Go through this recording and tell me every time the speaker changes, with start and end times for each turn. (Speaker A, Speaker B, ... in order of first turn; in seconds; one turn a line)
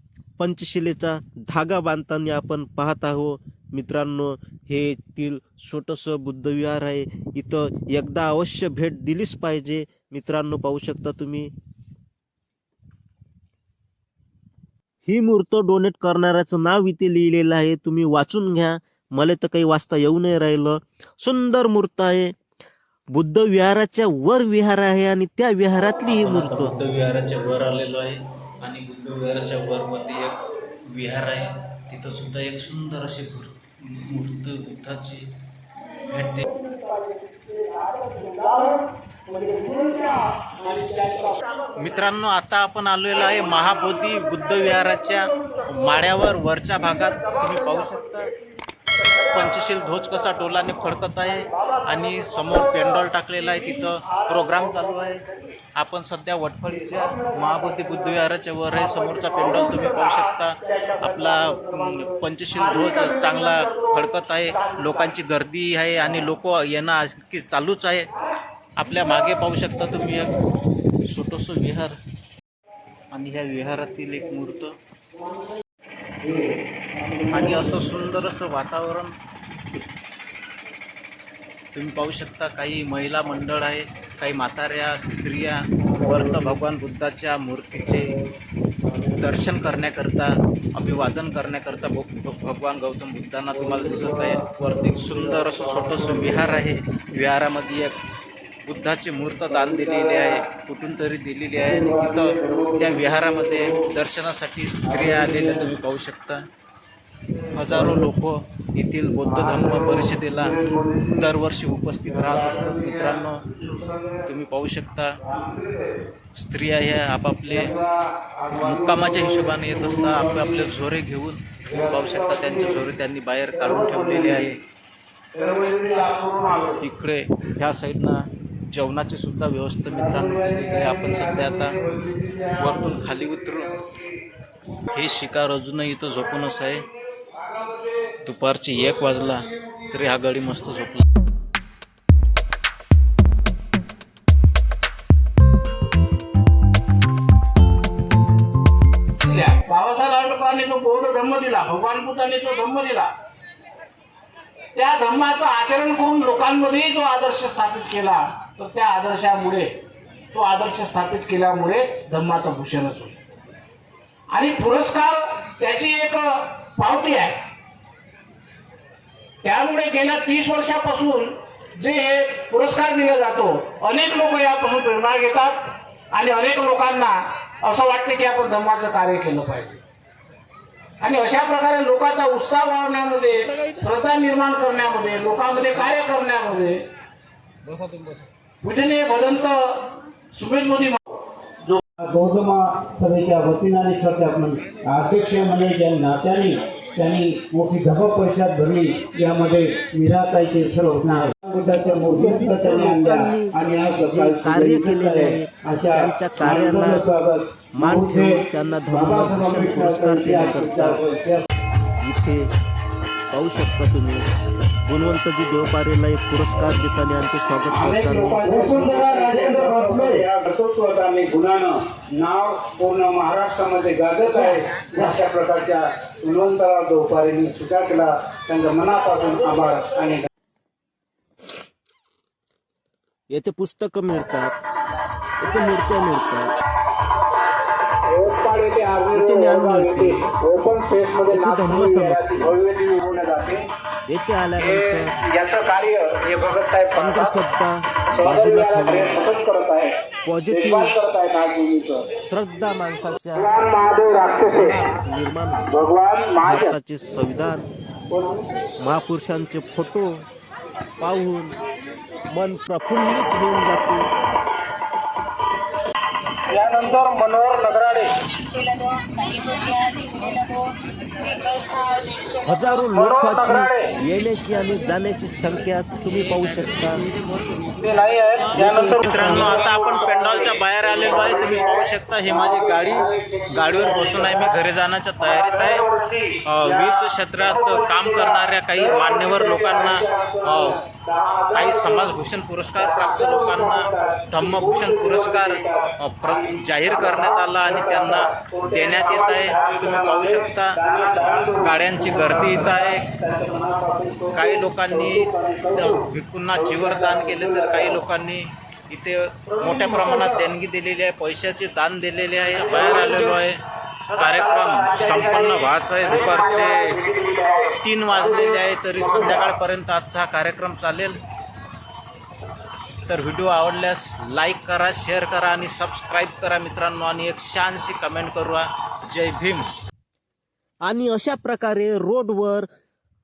Speaker A: 0.4-11.5
Speaker A: 15.1-22.3
Speaker A: 23.1-26.7
Speaker B: 26.1-35.3
Speaker B: 35.9-36.5
Speaker C: 37.8-41.4
Speaker B: 41.8-48.3
Speaker B: 49.2-55.2
Speaker B: 55.7-68.1
Speaker B: 68.8-70.4
Speaker B: 71.0-72.0
Speaker B: 73.1-74.7
Speaker B: 77.3-79.1
Speaker B: 81.7-88.2
Speaker B: 88.9-97.9
Speaker B: 98.7-106.5
Speaker B: 107.5-115.2
Speaker C: 110.6-110.9
Speaker B: 116.3-117.7
Speaker C: 117.6-119.2
Speaker B: 118.5-124.6
Speaker C: 125.3-126.7
Speaker D: 125.6-126.2
Speaker B: 126.7-131.8
Speaker C: 131.9-132.3
Speaker B: 132.4-133.7
Speaker B: 134.8-136.8
Speaker B: 138.1-141.1
Speaker C: 149.2-153.1
Speaker C: 154.7-159.7
Speaker C: 160.3-163.1
Speaker C: 164.3-167.4
Speaker C: 169.4-179.8
Speaker C: 181.0-186.8
Speaker C: 188.6-191.0
Speaker D: 192.0-211.4
Speaker C: 201.8-202.5
Speaker A: 202.1-207.1
Speaker A: 207.7-211.0
Speaker A: 212.0-212.4
Speaker A: 213.3-214.2
Speaker A: 214.8-218.4
Speaker D: 217.7-230.3
Speaker C: 217.9-220.3
Speaker C: 224.2-225.1
Speaker C: 229.1-230.0
Speaker A: 233.3-234.5
Speaker A: 235.4-236.5
Speaker C: 238.1-243.6
Speaker A: 239.1-240.2
Speaker A: 241.3-242.6
Speaker D: 242.7-243.3
Speaker A: 244.1-245.1
Speaker C: 244.6-247.3
Speaker A: 246.9-249.2
Speaker C: 248.1-249.9
Speaker A: 250.2-250.9
Speaker C: 250.5-252.0
Speaker D: 251.6-252.1
Speaker A: 252.3-253.6
Speaker C: 253.3-254.9
Speaker A: 254.5-255.8
Speaker C: 255.7-256.7
Speaker A: 256.4-257.7
Speaker C: 258.1-258.4
Speaker A: 258.8-260.1
Speaker A: 261.0-261.5
Speaker A: 262.3-264.1
Speaker C: 266.5-273.9
Speaker A: 272.5-277.0
Speaker B: 276.1-276.8
Speaker C: 277.8-284.5
Speaker A: 278.5-279.5
Speaker B: 278.6-285.9
Speaker C: 285.2-292.1
Speaker B: 286.4-290.8
Speaker B: 291.5-303.1
Speaker C: 292.8-306.0
Speaker D: 299.6-299.9
Speaker D: 300.9-302.8
Speaker D: 303.3-304.2
Speaker B: 304.3-317.0
Speaker D: 305.1-305.7
Speaker C: 306.6-308.0
Speaker C: 309.6-310.3
Speaker C: 312.7-313.3
Speaker C: 314.1-318.4
Speaker B: 317.7-321.2
Speaker C: 319.0-319.4
Speaker B: 323.1-329.7
Speaker A: 330.9-332.7